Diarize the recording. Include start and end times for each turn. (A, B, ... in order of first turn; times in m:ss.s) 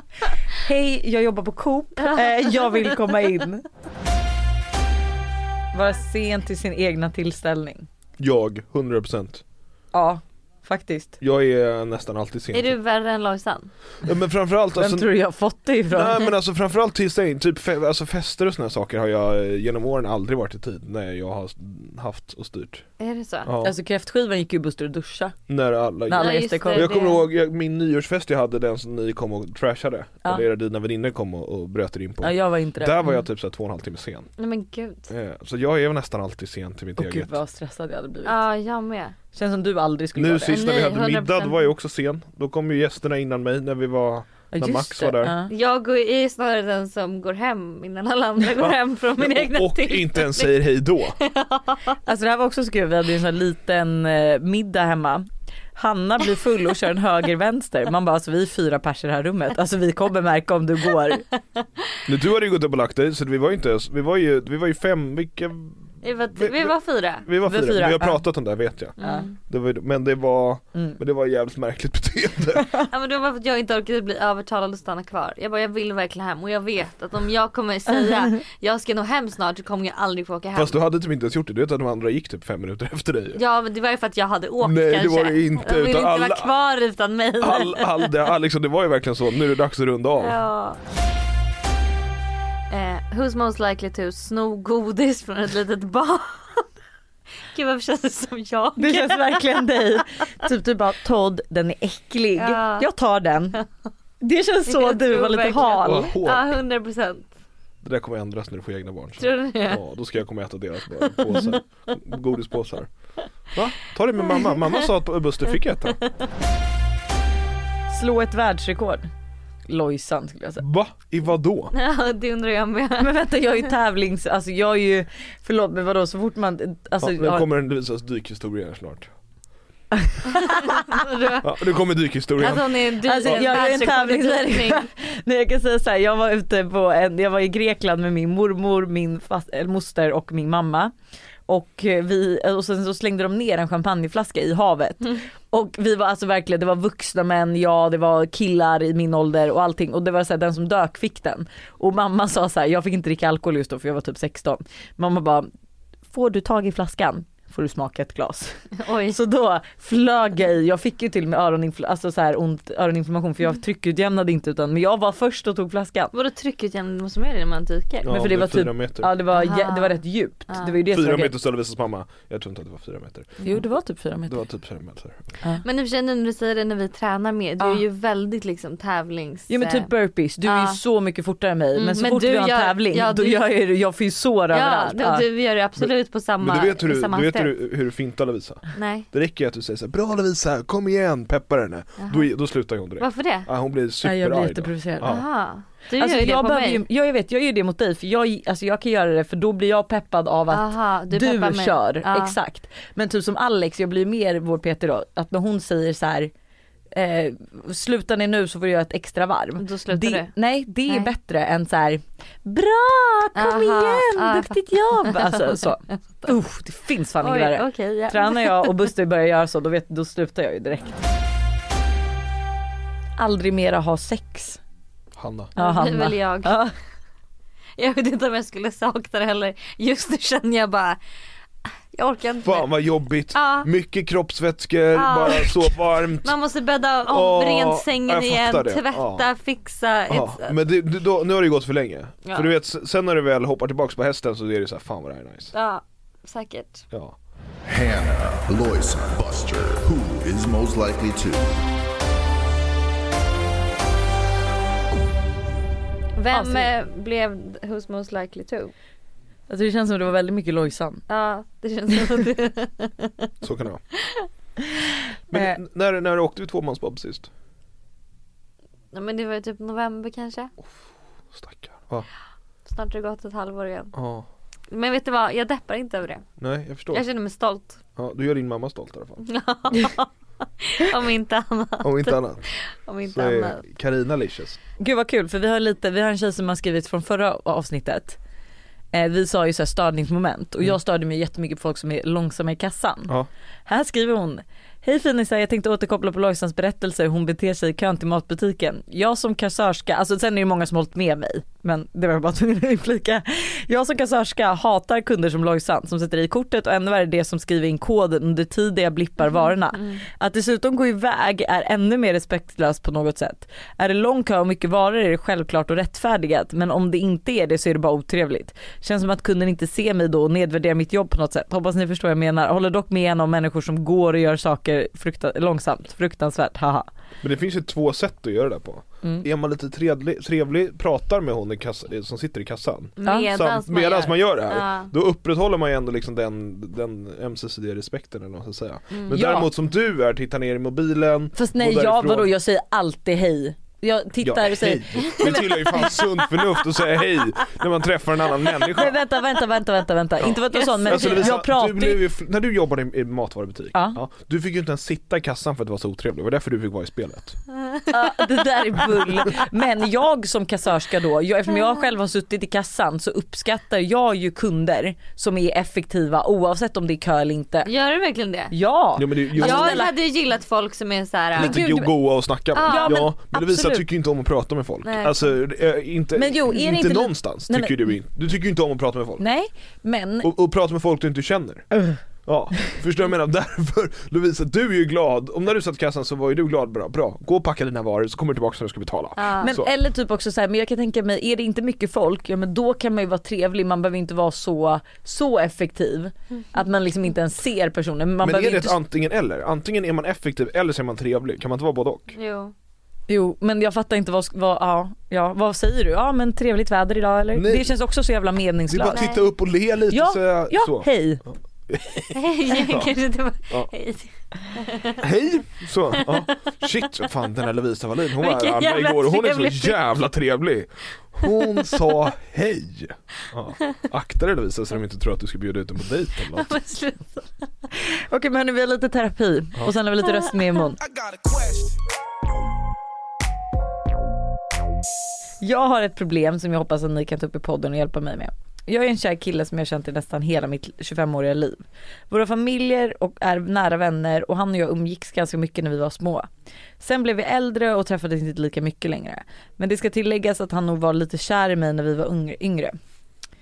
0:00.6-0:03.6 A
0:02.0-0:02.9 B
0:05.7-0:07.9 A
0:08.2-0:09.4 C
0:09.9-0:11.2 A
0:11.2-0:12.8 C
0:12.5-0:13.7 B
0:14.0-0:15.1 C
0:14.8-0:16.3 A
0:15.9-0:22.8 C
0:23.0-0:23.5 B
0:23.4-0:23.7 C
0:23.6-0:25.4 A
0:25.5-0:34.3 C
0:26.1-0:27.1 A
0:26.1-0:27.2 B
0:32.2-0:33.1 A
0:34.4-0:35.1 B
0:35.1-0:37.4 C
0:37.0-0:38.4 A
0:38.2-0:39.2 B
0:39.3-0:40.6 A
0:40.2-0:45.4 C
0:40.5-0:41.7 B
0:44.5-0:45.5 A
0:45.5-0:50.6 B
0:48.6-0:51.2 C
0:51.2-0:51.8 B
0:52.1-1:01.2 A
1:02.1-1:12.8 C
1:06.0-1:07.3 B
1:07.4-1:08.2 A
1:09.0-1:09.4 B
1:09.0-1:09.3 A
1:12.9-1:20.8 B
1:20.5-1:23.4 C
1:23.4-1:28.1 B
1:24.6-1:26.5 C
1:27.4-1:30.4 C
1:30.2-1:30.8 B
1:32.7-1:36.6 B
1:37.5-1:40.0 B
1:38.8-1:43.6 A
1:42.4-1:42.9 B
1:44.2-1:46.1 A
1:44.7-1:47.3 B
1:45.8-1:46.6 C
1:47.8-1:52.9 C
1:49.2-1:49.8 B
1:51.2-1:51.6 B
1:53.5-1:56.0 C
1:54.3-1:54.6 B
1:57.9-1:59.1 A
1:59.7-2:00.6 A
2:00.6-2:01.7 C
2:01.7-2:03.2 B
2:03.0-2:07.5 A
2:07.0-2:09.1 C
2:10.0-2:10.8 A
2:10.5-2:11.5 B
2:11.4-2:13.6 C
2:12.4-2:14.9 B
2:13.0-2:20.9 A
2:21.5-2:35.5 A
2:36.1-2:38.6 A
2:38.8-2:39.2 B
2:39.1-2:46.1 A
2:46.1-2:48.1 B
2:48.0-2:49.1 C
2:48.1-2:51.3 A
2:49.3-2:50.8 B
2:50.9-2:53.4 C
2:53.4-2:54.4 A
2:54.3-2:55.2 C
2:55.6-2:59.9 B
2:59.5-3:05.2 A
3:00.4-3:00.8 B
3:01.7-3:03.5 B
3:04.5-3:07.5 B
3:06.4-3:15.2 C
3:08.7-3:09.1 B
3:12.0-3:12.3 B
3:13.0-3:13.5 B
3:14.0-3:15.2 A
3:15.0-3:16.8 B
3:16.0-3:26.3 A
3:20.5-3:22.4 B
3:26.9-3:41.0 A
3:29.6-3:30.3 B
3:33.4-3:35.6 B
3:37.2-3:38.8 B
3:43.2-3:44.6 A
3:45.2-3:45.5 C
3:45.6-3:46.6 B
3:45.6-3:46.7 A
3:47.8-3:51.0 B
3:51.9-3:52.8 B
3:52.4-3:56.4 C
3:53.3-3:53.7 B
3:55.0-4:00.6 B
3:57.1-3:59.3 C
4:00.1-4:05.5 C
4:02.2-4:02.5 B
4:05.5-4:06.9 B
4:06.9-4:07.2 C
4:07.6-4:11.6 D
4:16.2-4:18.7 B
4:16.3-4:16.7 A
4:19.5-4:21.0 A
4:21.1-4:23.3 B
4:23.4-4:23.8 C
4:25.3-4:25.6 A
4:25.3-4:27.3 C
4:28.9-4:30.5 B
4:31.3-4:32.1 C
4:32.7-4:33.9 B
4:33.9-4:34.3 C
4:34.7-4:36.2 B
4:36.4-4:37.0 C
4:36.9-4:37.8 B
4:38.0-4:39.3 C
4:39.2-4:40.1 B
4:40.6-4:43.6 B
4:41.8-4:42.5 C
4:43.0-4:44.6 C
4:44.8-4:48.2 A
4:48.9-4:53.1 A
4:53.7-5:26.9 A
5:09.3-5:10.0 B
5:27.2-5:42.3 C
5:33.0-5:34.9 B
5:38.9-5:39.2 B
5:39.1-5:39.5 A
5:41.4-5:45.4 A
5:44.2-5:49.0 C
5:45.1-5:46.0 B
5:48.8-5:52.0 A
5:50.2-5:57.4 C
5:50.5-5:51.3 B
5:53.7-5:54.0 A
5:57.9-6:07.7 A
6:07.6-6:08.5 B
6:08.5-6:09.9 A
6:09.0-6:09.9 C
6:09.4-6:11.6 B
6:11.4-6:19.2 C
6:11.4-6:11.9 A
6:12.5-6:13.1 B
6:12.6-6:13.8 A
6:14.8-6:15.4 B
6:16.2-6:17.9 A
6:19.2-6:20.3 A
6:20.2-6:21.7 C
6:21.7-6:22.0 A
6:22.2-6:29.7 C
6:29.2-6:29.5 B
6:29.4-6:38.8 A
6:38.2-6:42.2 C
6:42.2-6:42.5 B
6:43.1-6:49.1 A
6:47.3-6:47.7 C
6:48.7-6:52.9 C
6:48.9-6:49.2 B
6:49.9-6:51.2 A
6:52.1-6:55.0 B
6:55.0-7:06.5 C
6:56.0-6:56.3 B
6:58.2-6:59.9 B
7:01.2-7:01.8 B
7:06.3-7:07.4 B
7:07.8-7:10.8 A
7:10.8-7:11.8 C
7:15.4-7:26.3 A
7:26.8-7:32.8 A